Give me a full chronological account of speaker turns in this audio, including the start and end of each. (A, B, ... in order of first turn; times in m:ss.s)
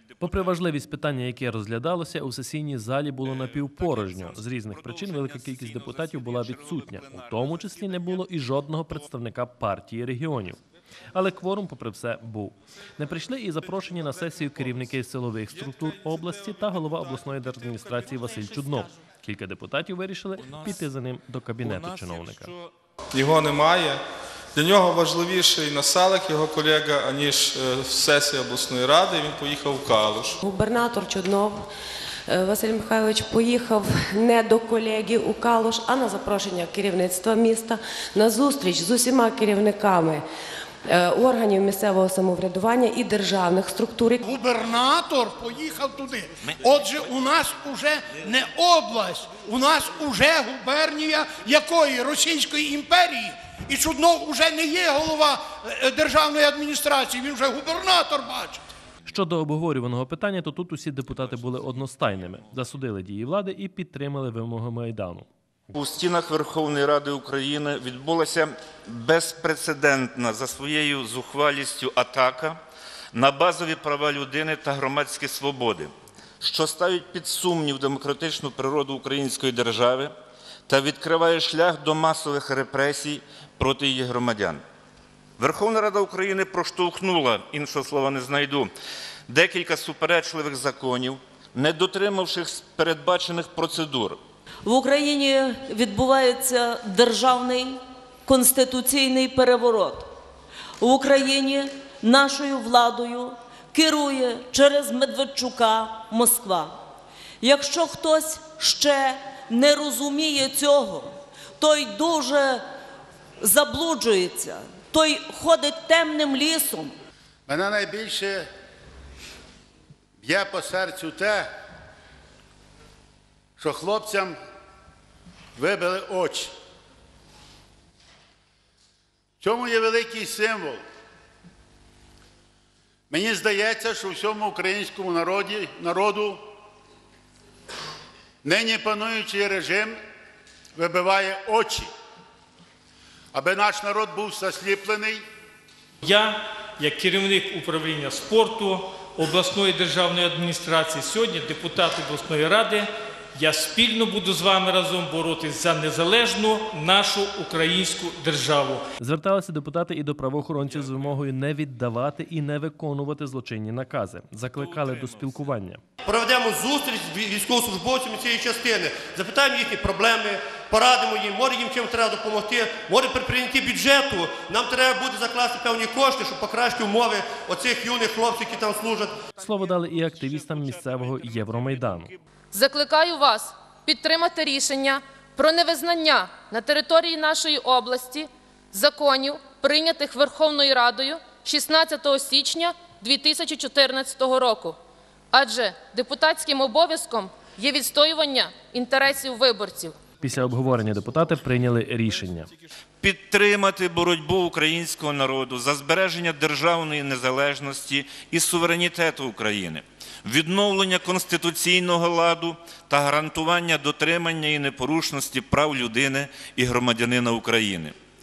0:00.2-0:10.6 A
0:06.3-0:06.6 B
0:11.1-0:22.5 A
0:23.1-0:24.0 C
0:24.5-0:30.4 C
0:30.4-0:31.7 D
0:32.3-0:40.2 D
0:40.9-0:44.2 D
0:44.3-0:58.6 E
0:59.1-1:05.3 A
1:05.8-1:12.6 B
1:13.1-1:20.1 B
1:20.7-1:24.6 B
1:25.4-1:28.7 B
1:29.3-1:34.2 B
1:34.6-1:40.1 F
1:40.8-1:46.8 F
1:47.4-1:52.6 F
1:53.4-1:56.9 F
1:57.5-1:58.5 G
2:00.2-2:01.5 G
2:03.6-2:04.4 G
2:05.6-2:06.5 G
2:09.4-2:10.8 G
2:13.1-2:16.4 G
2:18.4-2:20.0 G
2:20.8-2:21.9 G
2:23.3-2:25.2 G
2:26.0-2:38.8 H
2:39.0-2:45.8 A
2:46.0-2:59.2 I
2:59.4-3:02.1 A
3:02.5-3:14.8 J
3:15.3-3:20.0 J
3:20.2-3:22.5 A
3:23.0-3:37.9 B